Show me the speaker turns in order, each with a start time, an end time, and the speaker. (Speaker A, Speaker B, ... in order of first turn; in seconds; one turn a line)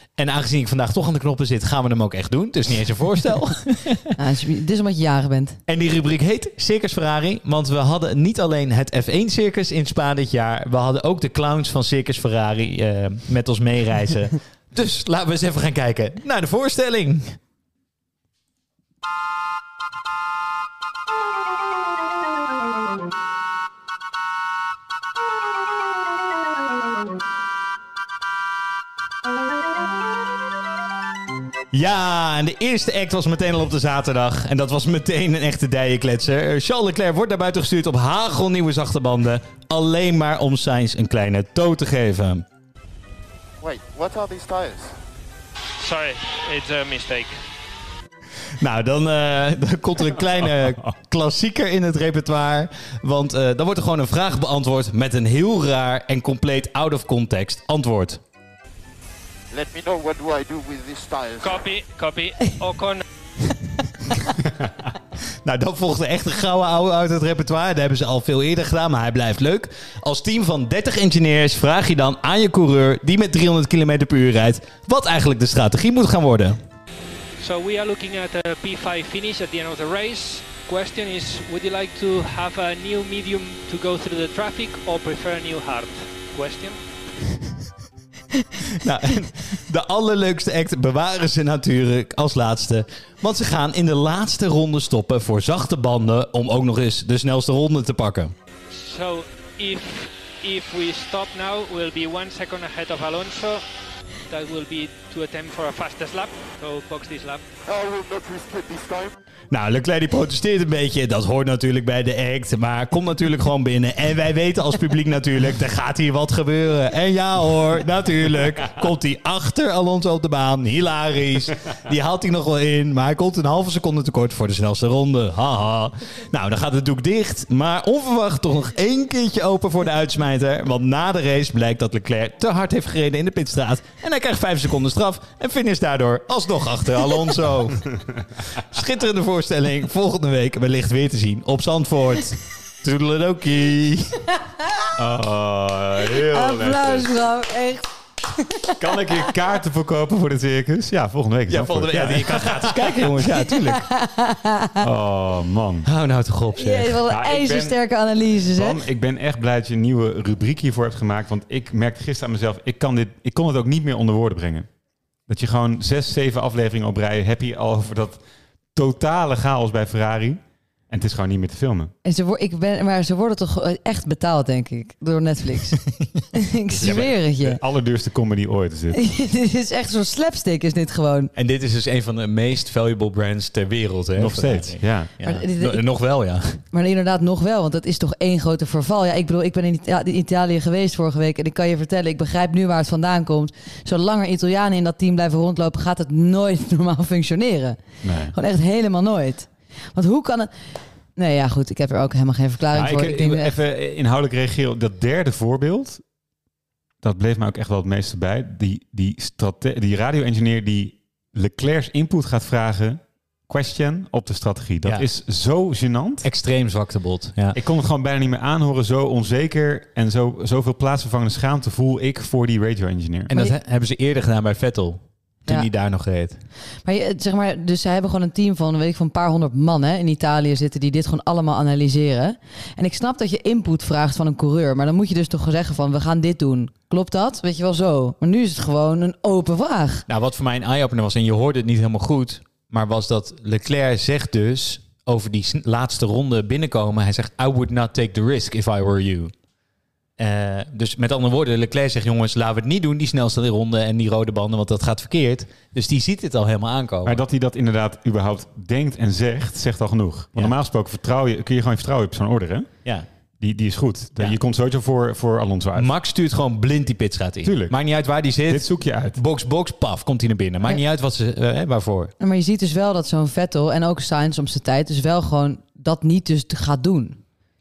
Speaker A: 0.2-4.1
Speaker B: 4.2-5.6
Speaker A: 5.7-17.4
Speaker A: 31.7-42.5
Speaker C: 43.6-45.0
Speaker D: 45.8-47.4
Speaker A: 48.6-58.2
Speaker E: 50.4-51.0
Speaker C: 59.5-61.7
Speaker D: 61.4-63.0
Speaker A: 65.4-76.6
Speaker D: 77.4-86.8
Speaker A: 88.8-98.3
Speaker D: 98.7-103.6
Speaker D: 104.3-107.4
Speaker C: 107.7-109.1
Speaker A: 109.5-137.9
Speaker A: 138.5-144.2
Speaker E: 145.0-147.1
Speaker B: 146.2-148.8
Speaker E: 148.8-153.0
Speaker A: 151.5-153.9
Speaker B: 153.6-154.8
Speaker E: 154.8-155.9
Speaker A: 155.8-157.0
Speaker B: 156.6-158.8
Speaker E: 157.1-157.8
Speaker E: 158.5-164.7
Speaker E: 165.3-168.2
Speaker E: 168.8-171.9
Speaker B: 172.1-177.6
Speaker E: 176.8-179.0
Speaker B: 178.9-181.3
Speaker A: 181.4-186.6
Speaker E: 184.2-185.1
Speaker B: 185.2-185.8
Speaker B: 186.7-203.6
Speaker E: 198.0-198.3
Speaker E: 202.7-206.0
Speaker E: 207.0-216.3
Speaker A: 216.2-217.6
Speaker E: 217.5-223.3
Speaker A: 223.3-226.4
Speaker B: 226.8-240.1
Speaker A: 240.1-249.3
Speaker A: 250.2-257.2
Speaker E: 257.0-262.8
Speaker E: 263.4-265.9
Speaker A: 265.8-272.1
Speaker E: 267.4-269.2
Speaker B: 272.2-277.2